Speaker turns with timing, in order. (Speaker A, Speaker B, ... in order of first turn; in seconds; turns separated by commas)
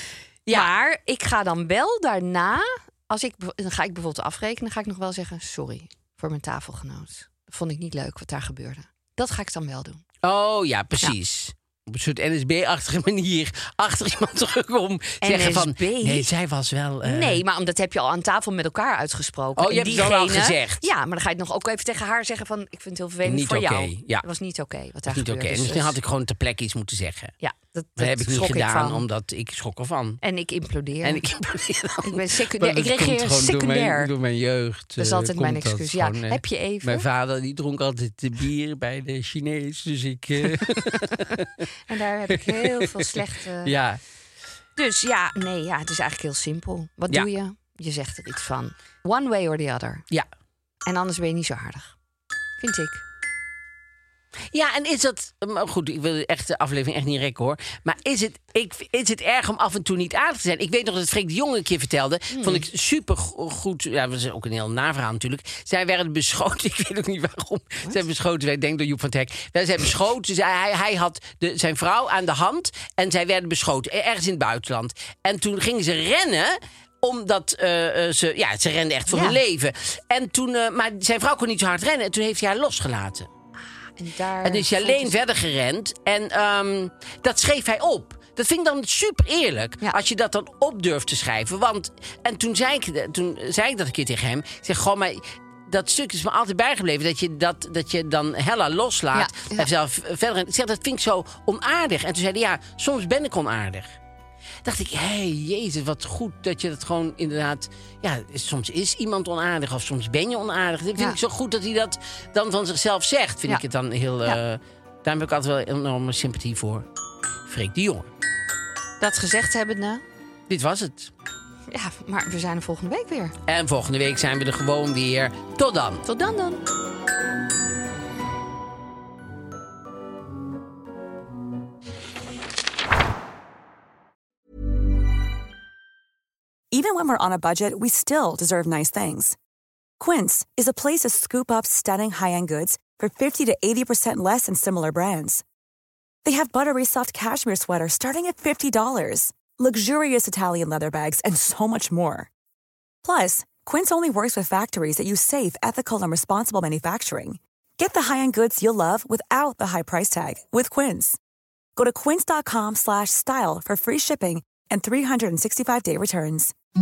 Speaker A: 0.5-10.0, Speaker B: 10.2-17.4, Speaker A: 15.2-16.3, Speaker A: 17.0-25.9, Speaker B: 19.6-20.9, Speaker B: 23.2-24.2, Speaker B: 25.1-27.3, Speaker A: 27.4-29.0, Speaker B: 28.0-30.2, Speaker A: 30.2-31.2, Speaker B: 31.0-41.5, Speaker A: 32.0-34.1, Speaker A: 35.0-37.1, Speaker A: 41.9-43.7, Speaker B: 42.3-44.0, Speaker A: 44.8-50.0, Speaker A: 50.9-51.9, Speaker A: 52.6-53.0, Speaker B: 54.5-83.3, Speaker A: 62.3-62.7, Speaker A: 79.1-79.4, Speaker A: 84.0-85.2, Speaker B: 84.4-104.0, Speaker A: 99.1-99.7, Speaker B: 104.6-116.8, Speaker B: 117.5-118.1, Speaker A: 119.0-120.0, Speaker B: 120.5-121.1, Speaker A: 121.7-123.3, Speaker B: 123.5-126.0, Speaker A: 126.0-126.6, Speaker C: 136.7-139.4, Speaker C: 140.0-145.4, Speaker C: 146.2-152.3, Speaker C: 153.0-161.2, Speaker C: 161.8-166.5